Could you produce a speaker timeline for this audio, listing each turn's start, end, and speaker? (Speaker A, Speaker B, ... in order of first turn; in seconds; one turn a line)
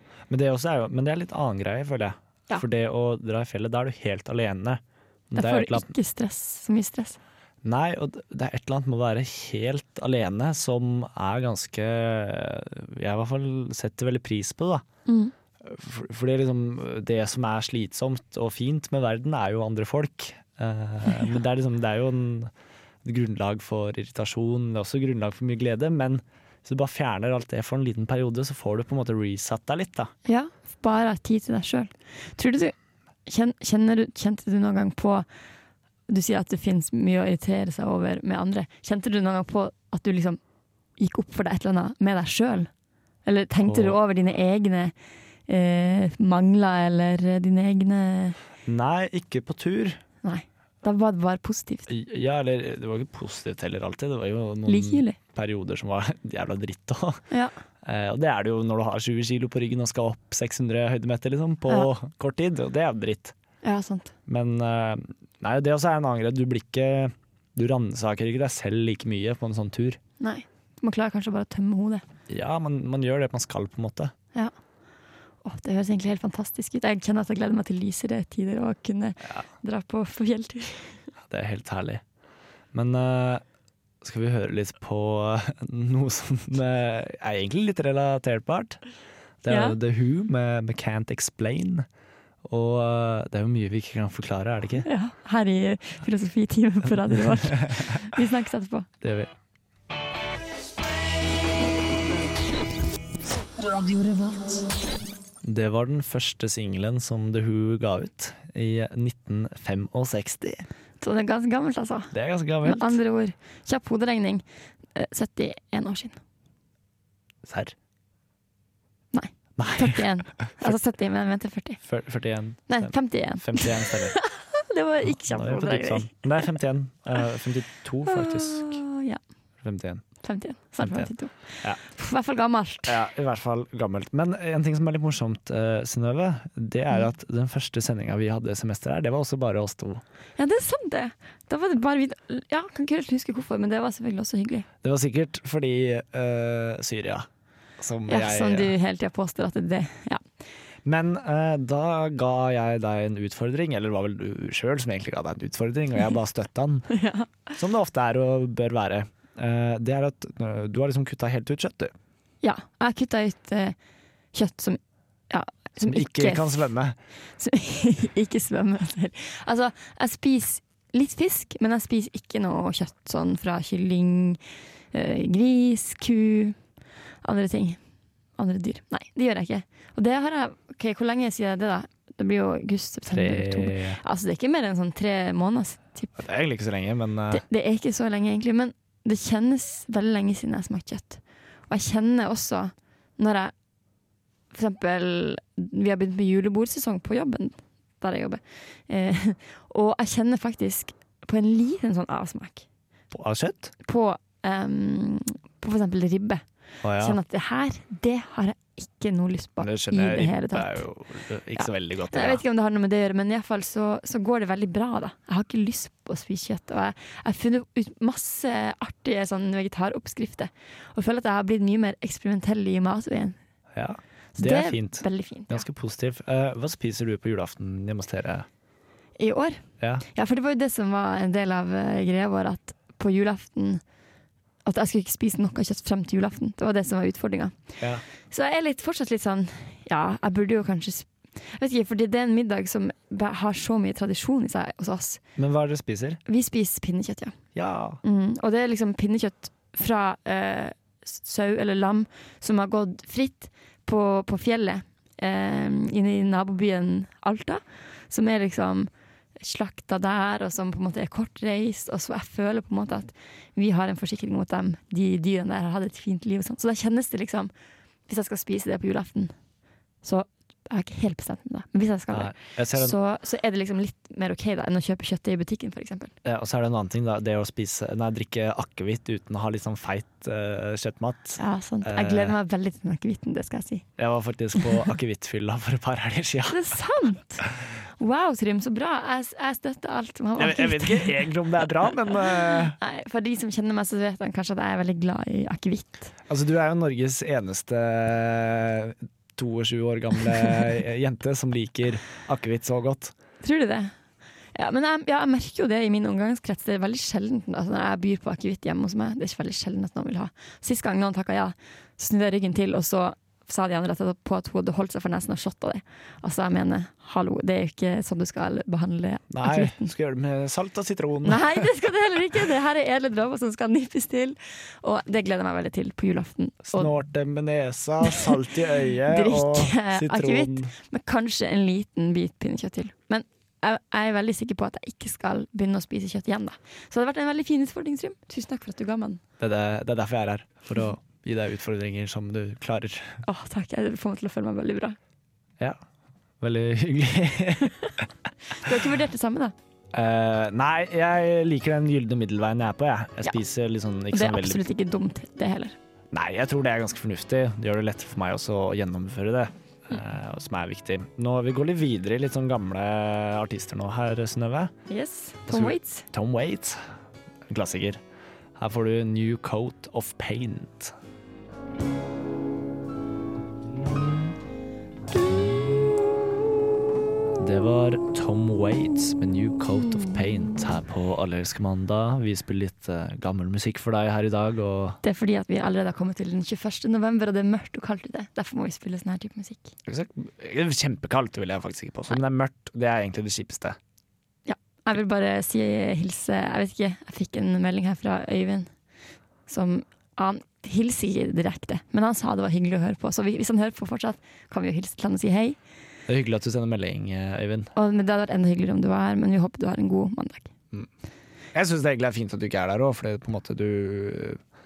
Speaker A: 0.3-5.9
Speaker B: 5.3-7.2
Speaker A: 7.6-14.8
Speaker B: 15.1-15.3
Speaker A: 15.6-22.5
Speaker A: 23.0-30.1
Speaker B: 30.2-32.7
Speaker B: 33.3-35.2
Speaker B: 36.1-40.4
Speaker B: 41.0-42.7
Speaker B: 43.2-44.9
Speaker A: 43.6-44.0
Speaker B: 45.5-48.4
Speaker A: 48.6-50.0
Speaker B: 50.2-51.9
Speaker A: 51.9-57.2
Speaker B: 54.7-55.2
Speaker A: 57.8-63.3
Speaker B: 63.6-64.1
Speaker A: 64.3-70.0
Speaker B: 70.2-72.0
Speaker A: 72.3-74.1
Speaker B: 75.4-81.0
Speaker A: 81.2-82.0
Speaker A: 82.7-83.4
Speaker A: 84.0-88.8
Speaker A: 89.4-91.8
Speaker B: 89.5-89.8
Speaker A: 92.4-94.9
Speaker B: 94.8-98.9
Speaker A: 97.0-98.0
Speaker A: 99.0-99.3
Speaker A: 105.4-110.6
Speaker B: 111.0-112.1
Speaker A: 112.1-113.0
Speaker B: 112.6-114.4
Speaker B: 114.9-116.2
Speaker A: 117.4-117.7
Speaker B: 119.1-121.8
Speaker A: 119.6-120.8
Speaker A: 121.8-124.2
Speaker B: 122.7-126.1
Speaker A: 125.1-128.8
Speaker B: 128.1-129.2
Speaker A: 129.6-130.0
Speaker B: 130.2-133.0
Speaker A: 130.8-131.1
Speaker A: 132.8-140.0
Speaker B: 140.4-144.7
Speaker A: 144.8-147.3
Speaker A: 147.8-148.7
Speaker B: 148.1-150.2
Speaker A: 150.8-156.9
Speaker B: 156.9-157.6
Speaker A: 157.6-161.9
Speaker B: 162.4-163.8
Speaker B: 164.3-166.7
Speaker A: 165.8-167.0
Speaker B: 167.4-174.4
Speaker B: 174.9-176.6
Speaker B: 177.2-177.8
Speaker B: 178.4-186.2
Speaker A: 183.1-184.0
Speaker A: 186.2-187.4
Speaker B: 187.3-193.5
Speaker B: 194.5-202.7
Speaker A: 203.1-203.7
Speaker B: 203.8-206.4
Speaker A: 206.8-207.2
Speaker B: 207.0-210.8
Speaker A: 209.6-212.4
Speaker B: 211.6-223.4
Speaker A: 223.7-228.5
Speaker B: 224.3-225.6
Speaker B: 229.2-233.8
Speaker A: 229.8-230.0
Speaker B: 234.6-237.6
Speaker B: 238.3-245.2
Speaker A: 245.3-246.2
Speaker B: 246.2-247.4
Speaker A: 247.5-248.0
Speaker B: 248.0-267.5
Speaker B: 268.1-269.3
Speaker B: 270.0-276.1
Speaker A: 272.1-272.9
Speaker A: 276.2-282.4
Speaker B: 281.4-283.8
Speaker A: 284.0-286.7
Speaker B: 286.5-287.4
Speaker B: 288.0-291.3
Speaker A: 290.4-292.8
Speaker B: 291.9-296.1
Speaker A: 296.3-303.1
Speaker B: 303.4-303.9
Speaker B: 304.5-319.9
Speaker A: 319.3-321.7
Speaker B: 321.2-326.9
Speaker A: 326.7-330.7
Speaker B: 329.1-339.2
Speaker A: 339.4-343.2
Speaker B: 343.2-345.0
Speaker A: 346.4-347.9
Speaker B: 348.5-349.5
Speaker A: 349.9-354.6
Speaker B: 354.1-355.8
Speaker A: 356.1-364.7
Speaker B: 364.9-366.1
Speaker A: 365.5-366.8
Speaker A: 367.5-368.0
Speaker A: 368.6-370.9
Speaker A: 373.7-374.3
Speaker A: 375.1-375.8
Speaker A: 377.4-385.0
Speaker B: 385.0-389.7
Speaker A: 389.8-393.8
Speaker B: 394.4-398.7
Speaker B: 399.5-405.6
Speaker A: 406.1-407.7
Speaker B: 407.7-410.5
Speaker A: 411.5-414.4